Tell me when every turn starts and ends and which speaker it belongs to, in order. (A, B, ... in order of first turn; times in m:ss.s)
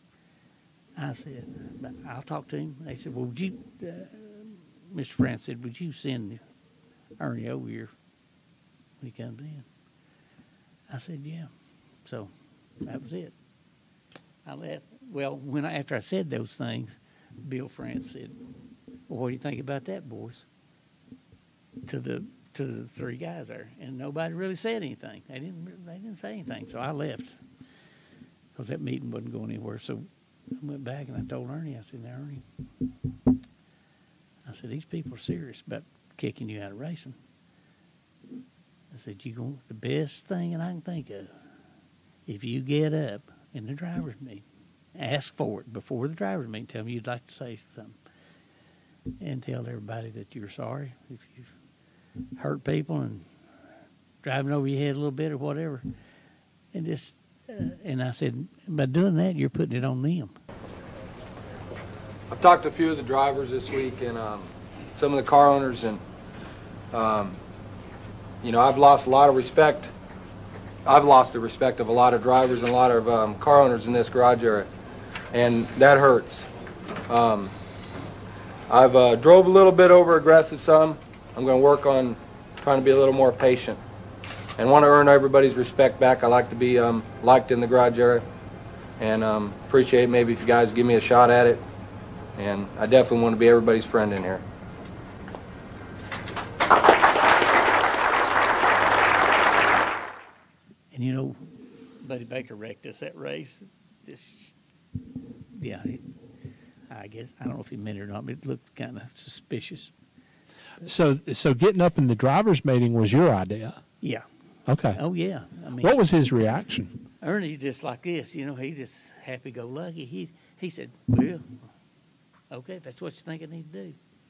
0:01.0-0:06.4 A
0:07.2-0:07.9 A
0:09.0-0:09.6 A
0:10.9-0:11.5 A
0:12.0-0:12.3 A
0:12.8-0:13.3 A
0:14.4-0:18.4 A
0:19.1-0:20.4 A
0:21.8-0:27.4 A
0:28.5-0:30.0 A
0:30.6-0:32.4 A
0:34.4-0:37.2 A
0:38.9-0:41.3 A
0:42.2-0:44.4 A
0:45.0-0:48.0 A
0:49.2-0:51.5 A
0:52.4-0:53.2 A
0:54.2-0:55.8 A
0:56.7-1:00.3 A
1:02.3-1:06.0 B
1:06.9-1:07.4 B
1:08.4-1:09.9 B
1:10.8-1:14.7 B
1:15.3-1:16.4 B
1:17.1-1:17.5 B
1:18.7-1:23.8 B
1:24.6-1:28.2 B
1:29.0-1:31.6 B
1:32.4-1:34.4 B
1:40.9-1:41.4 A
1:42.0-1:44.5 A
1:45.5-1:46.0 A
1:46.9-1:49.9 A
1:50.8-1:53.8 C
1:54.7-1:55.0 C
1:55.0-1:55.9 A
1:55.8-1:56.9 C
1:57.2-2:01.6 A
2:02.5-2:04.0 A